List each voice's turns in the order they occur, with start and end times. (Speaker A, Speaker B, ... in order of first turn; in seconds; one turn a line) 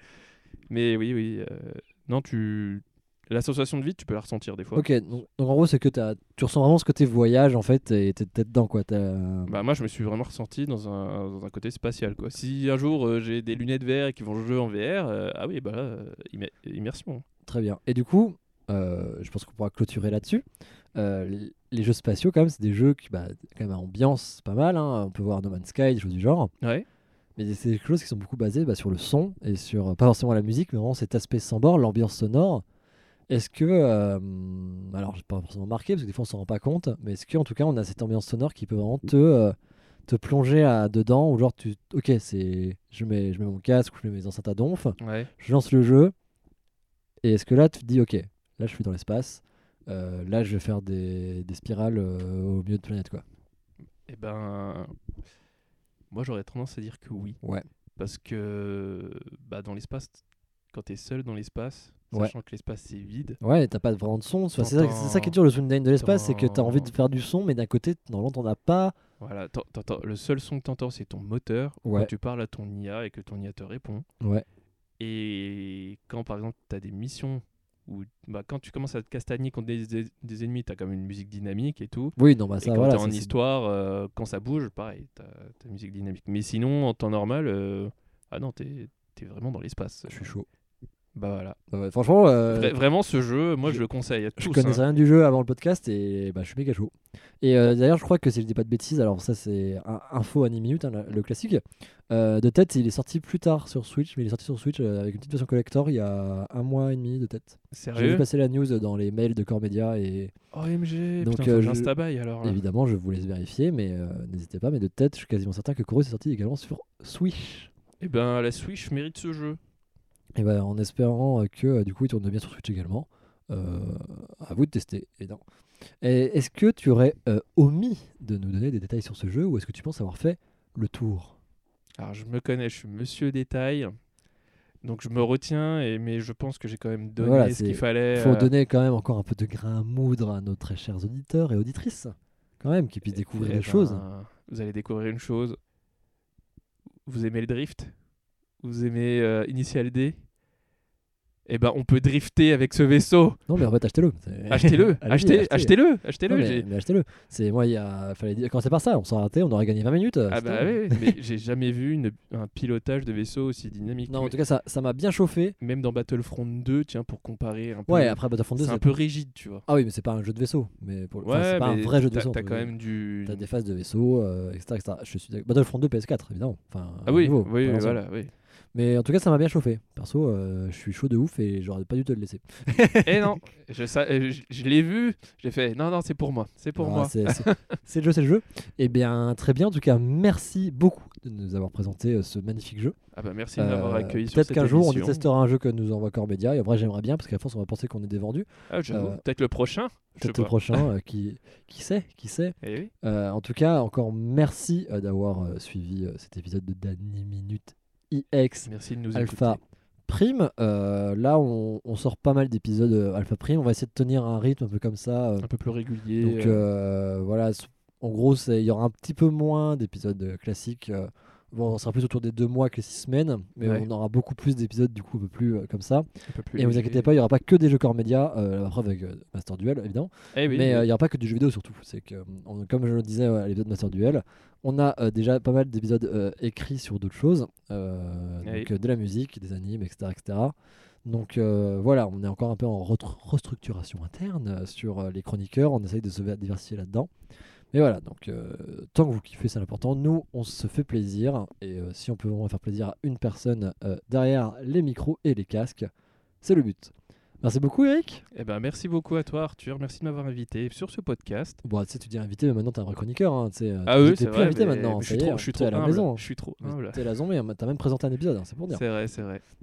Speaker A: 0.7-4.9
Speaker B: 4.7-9.6
Speaker A: 9.5-17.2
Speaker B: 17.4-26.5
Speaker B: 27.4-32.6
Speaker B: 33.3-39.5
Speaker B: 40.1-46.1
Speaker A: 45.0-45.3
Speaker B: 47.2-53.2
Speaker A: 54.1-54.9
Speaker A: 56.1-57.4
Speaker A: 58.0-63.4
Speaker B: 63.4-69.0
Speaker A: 64.6-65.4
Speaker A: 66.0-66.9
Speaker A: 69.2-74.0
Speaker B: 71.8-72.1
Speaker A: 75.0-90.3
Speaker B: 82.2-83.3
Speaker B: 90.1-90.5
Speaker A: 91.1-91.6
Speaker B: 91.7-92.7
Speaker A: 92.5-94.8
Speaker B: 94.4-110.3
Speaker A: 107.7-108.2
Speaker A: 110.5-112.6
Speaker B: 111.2-117.7
Speaker A: 118.0-119.6
Speaker B: 120.3-125.4
Speaker B: 126.0-131.3
Speaker A: 132.0-133.9
Speaker A: 134.8-138.5
Speaker B: 137.2-144.0
Speaker A: 143.1-145.6
Speaker A: 147.1-147.9
Speaker A: 148.6-150.2
Speaker A: 151.4-153.4
Speaker B: 153.5-155.7
Speaker A: 154.5-156.6
Speaker B: 156.3-161.1
Speaker A: 160.3-164.3
Speaker B: 164.1-165.6
Speaker A: 165.6-169.7
Speaker B: 167.9-168.8
Speaker B: 169.7-172.7
Speaker A: 171.2-173.5
Speaker B: 173.2-178.0
Speaker A: 177.1-178.3
Speaker B: 178.7-183.4
Speaker A: 183.0-187.7
Speaker B: 186.8-192.9
Speaker A: 193.1-195.2
Speaker B: 193.6-199.2
Speaker A: 198.7-200.8
Speaker B: 200.2-215.5
Speaker A: 202.6-202.9
Speaker A: 208.7-209.6
Speaker A: 215.4-216.6
Speaker B: 216.2-247.1
Speaker A: 223.6-223.9
Speaker A: 226.3-227.1
Speaker A: 230.3-230.9
Speaker A: 238.4-238.7
Speaker B: 247.7-255.9
Speaker B: 256.4-258.2
Speaker A: 258.3-261.6
Speaker B: 261.6-268.8
Speaker A: 263.9-267.1
Speaker A: 268.7-269.4